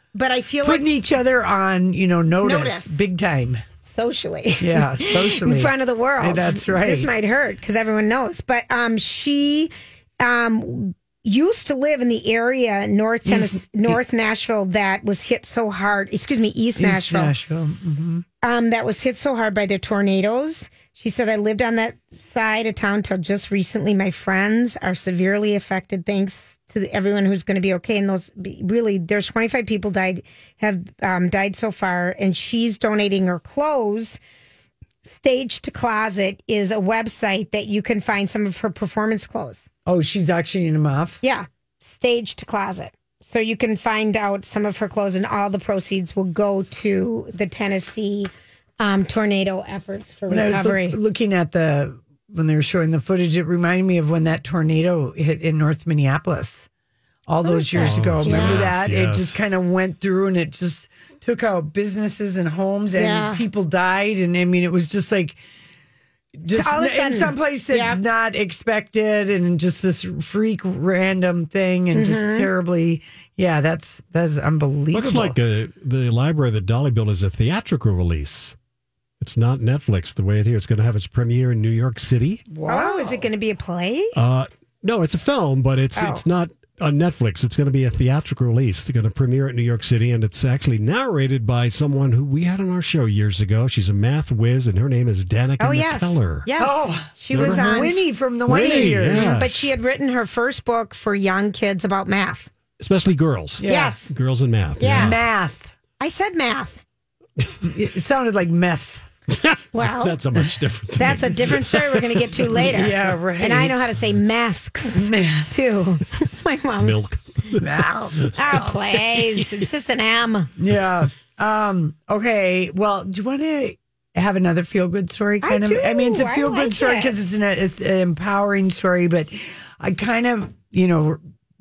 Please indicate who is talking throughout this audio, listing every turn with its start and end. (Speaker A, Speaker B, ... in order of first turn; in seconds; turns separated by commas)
Speaker A: 0.1-0.8, Speaker B: 0.6-3.6, Speaker A: 2.4-3.1, Speaker A: 3.8-17.3, Speaker B: 4.6-7.1, Speaker B: 13.2-14.0, Speaker B: 16.8-18.2, Speaker A: 18.4-34.2, Speaker A: 35.0-39.7, Speaker B: 39.9-41.2, Speaker A: 41.2-51.0, Speaker B: 50.3-56.7, Speaker B: 57.3-65.4, Speaker A: 57.4-58.7, Speaker C: 57.8-59.4, Speaker A: 63.0-63.4, Speaker B: 66.3-75.4, Speaker A: 66.5-68.0, Speaker A: 71.9-72.5, Speaker C: 74.9-78.5, Speaker C: 79.2-82.4, Speaker B: 82.5-83.3, Speaker A: 82.7-84.2, Speaker C: 84.1-96.5, Speaker A: 86.0-86.2, Speaker A: 95.6-102.5, Speaker B: 96.6-99.4, Speaker C: 97.3-97.6, Speaker C: 98.5-99.7, Speaker C: 102.8-105.2, Speaker B: 103.6-104.0, Speaker A: 103.7-104.1, Speaker A: 104.8-105.2, Speaker B: 104.9-105.7, Speaker A: 106.0-106.8, Speaker B: 107.6-109.1, Speaker C: 109.3-112.6, Speaker A: 109.7-110.4, Speaker A: 111.0-117.0, Speaker B: 112.6-113.8, Speaker B: 114.9-115.8, Speaker C: 116.8-119.5, Speaker B: 117.5-118.7, Speaker A: 118.3-120.5, Speaker B: 120.6-131.2, Speaker A: 125.4-127.2